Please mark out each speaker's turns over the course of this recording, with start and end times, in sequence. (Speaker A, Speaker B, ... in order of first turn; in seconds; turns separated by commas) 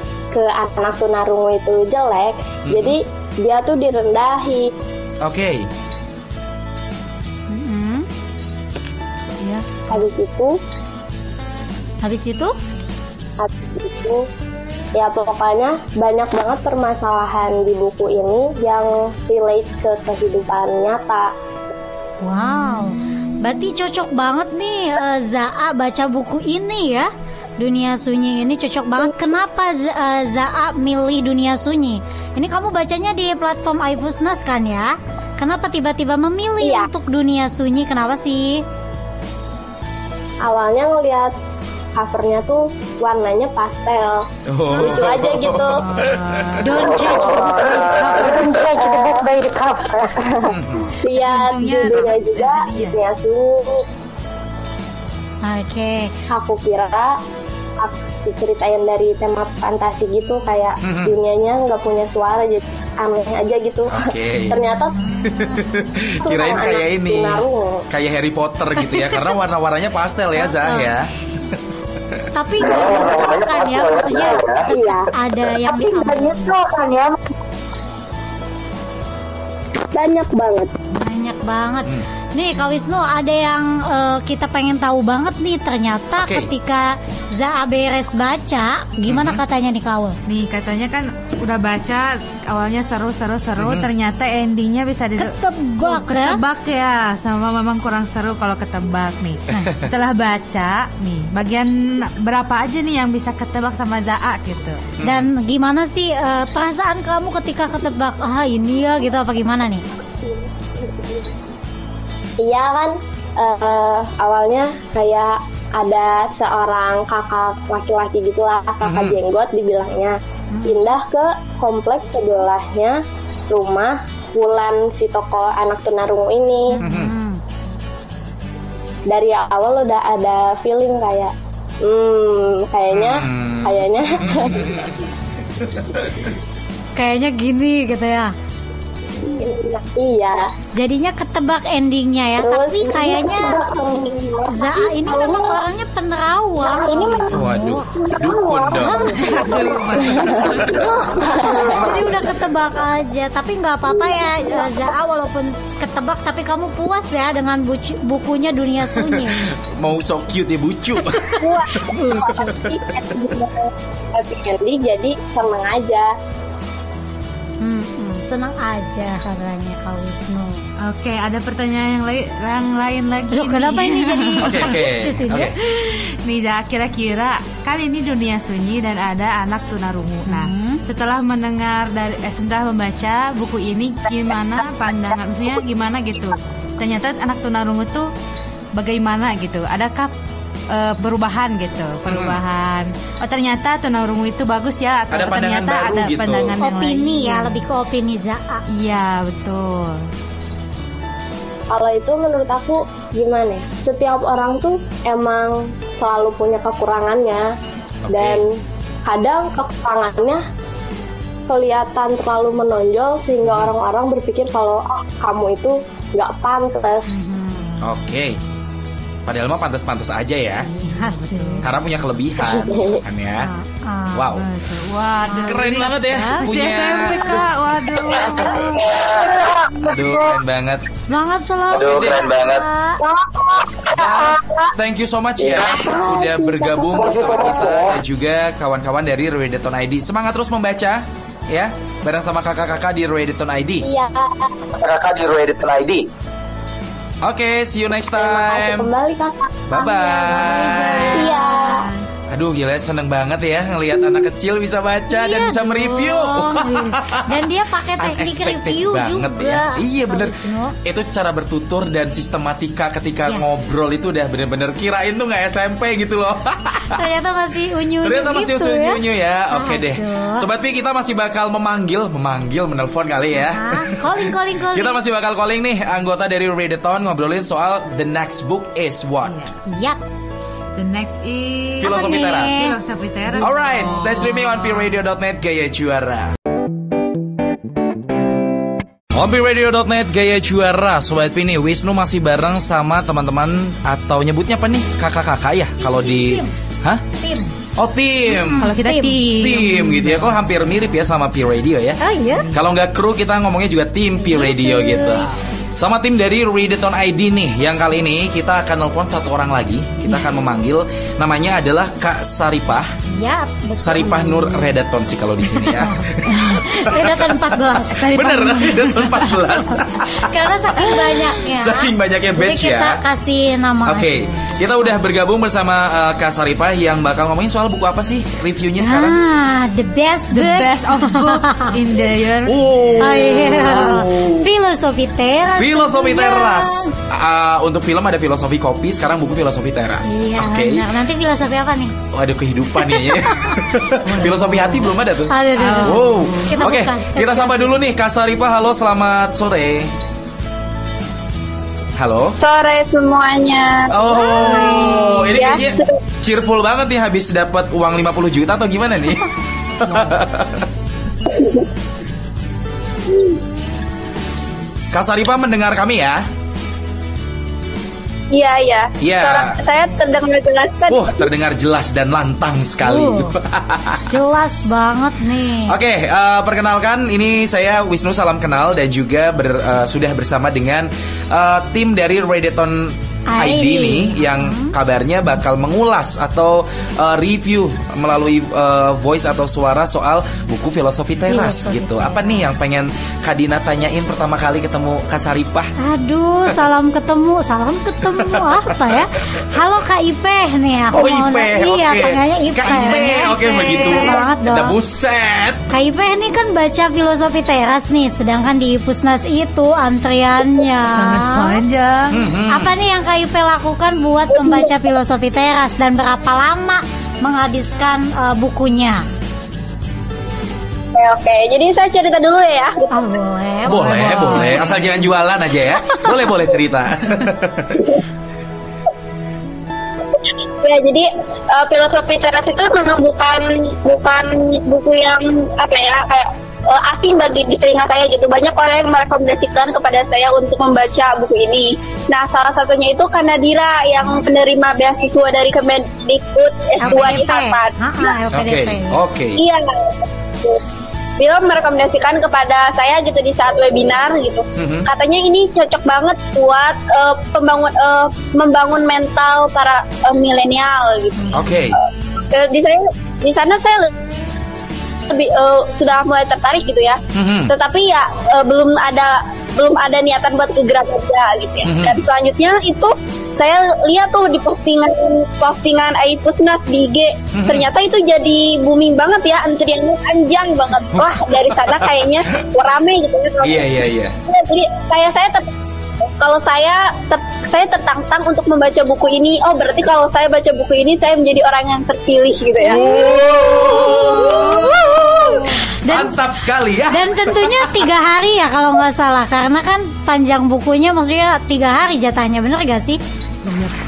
Speaker A: 0.3-4.7, Speaker B: 2.6-3.0, Speaker B: 5.2-5.7, Speaker C: 7.5-8.1, Speaker D: 9.4-10.1, Speaker A: 9.9-10.6, Speaker C: 12.0-12.6, Speaker A: 13.4-14.3, Speaker A: 14.9-21.3, Speaker C: 22.2-38.6, Speaker A: 36.6-36.9, Speaker A: 40.4-41.3, Speaker A: 42.0-45.8, Speaker B: 44.5-46.7, Speaker D: 45.7-47.1, Speaker C: 46.6-48.8, Speaker A: 48.5-53.8, Speaker E: 48.6-49.7, Speaker B: 50.5-51.0, Speaker D: 51.1-53.0, Speaker C: 55.4-56.1, Speaker A: 56.3-57.2, Speaker A: 57.8-65.1, Speaker B: 60.8-61.1, Speaker B: 63.9-64.6, Speaker B: 65.2-71.6, Speaker A: 66.2-67.8, Speaker C: 68.9-69.3, Speaker C: 70.4-70.9, Speaker C: 72.3-76.7, Speaker A: 74.1-75.1, Speaker A: 76.7-77.0, Speaker A: 79.9-80.7, Speaker C: 80.9-90.2, Speaker B: 86.2-86.5, Speaker B: 89.1-89.4, Speaker D: 90.3-104.9, Speaker B: 93.6-93.9, Speaker C: 95.2-96.4, Speaker B: 105.0-105.3, Speaker C: 105.0-109.8, Speaker A: 110.8-111.2, Speaker A: 112.4-123.0, Speaker B: 118.8-119.2, Speaker C: 120.5-120.9, Speaker A: 123.5-126.8, Speaker C: 126.7-127.4, Speaker B: 126.8-127.1, Speaker A: 129.1-134.9, Speaker B: 132.9-135.0, Speaker B: 135.6-136.3, Speaker C: 137.0-138.3, Speaker A: 139.2-140.4, Speaker C: 140.8-143.7, Speaker A: 142.4-145.6, Speaker C: 144.5-147.9, Speaker A: 146.6-152.4, Speaker B: 147.3-149.1, Speaker C: 148.8-149.5, Speaker D: 149.1-150.8, Speaker C: 150.4-159.5, Speaker A: 153.9-154.9, Speaker B: 158.9-161.9, Speaker A: 161.4-166.1, Speaker C: 161.9-162.4, Speaker B: 162.4-162.8, Speaker C: 167.6-170.6, Speaker D: 170.8-174.8, Speaker C: 173.3-175.5, Speaker B: 174.4-175.6, Speaker D: 175.6-188.1, Speaker C: 180.3-180.8, Speaker D: 188.8-190.1, Speaker D: 190.7-197.7, Speaker B: 192.1-192.4, Speaker B: 195.1-196.6, Speaker C: 196.6-198.6, Speaker D: 198.7-200.0, Speaker A: 201.7-207.5, Speaker B: 208.1-208.4, Speaker A: 208.1-208.4, Speaker A: 209.1-210.4, Speaker A: 211.5-217.2, Speaker B: 213.4-213.7, Speaker C: 217.1-217.7, Speaker B: 217.8-218.4, Speaker B: 219.3-220.7, Speaker D: 220.7-221.7, Speaker C: 220.7-221.7, Speaker B: 221.6-223.5, Speaker A: 222.4-223.0, Speaker C: 223.4-224.3, Speaker B: 224.2-224.5, Speaker D: 224.3-228.9, Speaker C: 225.3-227.3, Speaker B: 225.4-227.4, Speaker C: 228.6-228.8, Speaker B: 229.8-230.8, Speaker C: 231.0-233.0, Speaker B: 231.8-232.4, Speaker A: 233.1-234.1, Speaker B: 233.9-243.9, Speaker A: 235.4-237.7, Speaker A: 243.8-244.6, Speaker E: 244.8-245.9, Speaker B: 247.2-248.9, Speaker A: 248.1-250.4, Speaker B: 249.7-251.3, Speaker C: 250.0-251.9, Speaker D: 250.3-251.3, Speaker A: 251.1-251.8, Speaker B: 252.3-267.1, Speaker C: 255.1-260.8, Speaker C: 266.9-270.4, Speaker B: 268.0-279.4, Speaker C: 273.5-275.0, Speaker D: 279.2-279.6, Speaker C: 279.7-280.0, Speaker D: 280.8-285.0, Speaker B: 281.8-282.7, Speaker C: 281.8-282.7, Speaker B: 283.4-286.3, Speaker B: 289.1-297.0, Speaker C: 295.8-296.5, Speaker C: 297.2-297.5, Speaker B: 297.8-298.7, Speaker C: 298.3-299.2, Speaker D: 298.6-300.5, Speaker B: 299.4-302.0, Speaker C: 302.0-302.5, Speaker D: 302.2-302.7, Speaker B: 302.5-312.9, Speaker C: 304.2-305.3, Speaker C: 313.1-314.7, Speaker B: 313.8-320.3, Speaker C: 315.5-315.9, Speaker D: 316.3-316.6, Speaker C: 316.5-318.0, Speaker D: 317.9-319.4, Speaker C: 320.1-324.4, Speaker B: 321.6-323.0, Speaker B: 323.9-329.2, Speaker C: 328.8-331.8, Speaker D: 330.3-332.8, Speaker B: 332.5-334.5, Speaker C: 333.0-336.9, Speaker B: 335.6-340.9, Speaker C: 340.1-341.9, Speaker B: 342.1-349.9, Speaker C: 342.7-343.6, Speaker D: 344.0-344.9, Speaker C: 344.1-347.8, Speaker D: 345.6-346.7, Speaker B: 352.0-352.4, Speaker F: 352.3-354.1, Speaker B: 353.9-360.7, Speaker C: 354.1-355.5, Speaker F: 355.3-356.0, Speaker F: 361.3-361.6, Speaker B: 364.9-366.2, Speaker F: 368.3-371.3, Speaker B: 369.0-369.6, Speaker B: 370.9-374.1, Speaker C: 372.8-373.3, Speaker C: 374.1-375.7, Speaker B: 375.7-395.7, Speaker C: 383.3-384.7, Speaker C: 391.3-392.5, Speaker C: 395.8-404.7, Speaker B: 398.0-399.0, Speaker B: 400.9-405.6, Speaker D: 402.6-404.3, Speaker C: 405.7-411.6, Speaker D: 410.7-412.2, Speaker B: 412.1-412.7, Speaker C: 412.5-419.1, Speaker F: 414.3-414.7, Speaker F: 420.9-423.0, Speaker C: 422.9-424.7, Speaker B: 423.7-427.9, Speaker D: 423.7-425.1, Speaker F: 430.2-448.2, Speaker B: 446.8-447.2, Speaker C: 446.8-449.0, Speaker B: 448.3-449.4, Speaker F: 449.4-450.6, Speaker F: 451.2-463.9, Speaker B: 454.6-454.9, Speaker B: 461.3-461.8, Speaker F: 465.1-483.7, Speaker B: 467.1-467.5, Speaker B: 471.6-472.0, Speaker B: 477.3-477.7, Speaker B: 480.9-482.4, Speaker B: 483.4-484.1, Speaker F: 484.3-485.5, Speaker F: 486.2-493.4, Speaker B: 492.6-497.9, Speaker C: 492.7-496.2, Speaker C: 496.9-503.7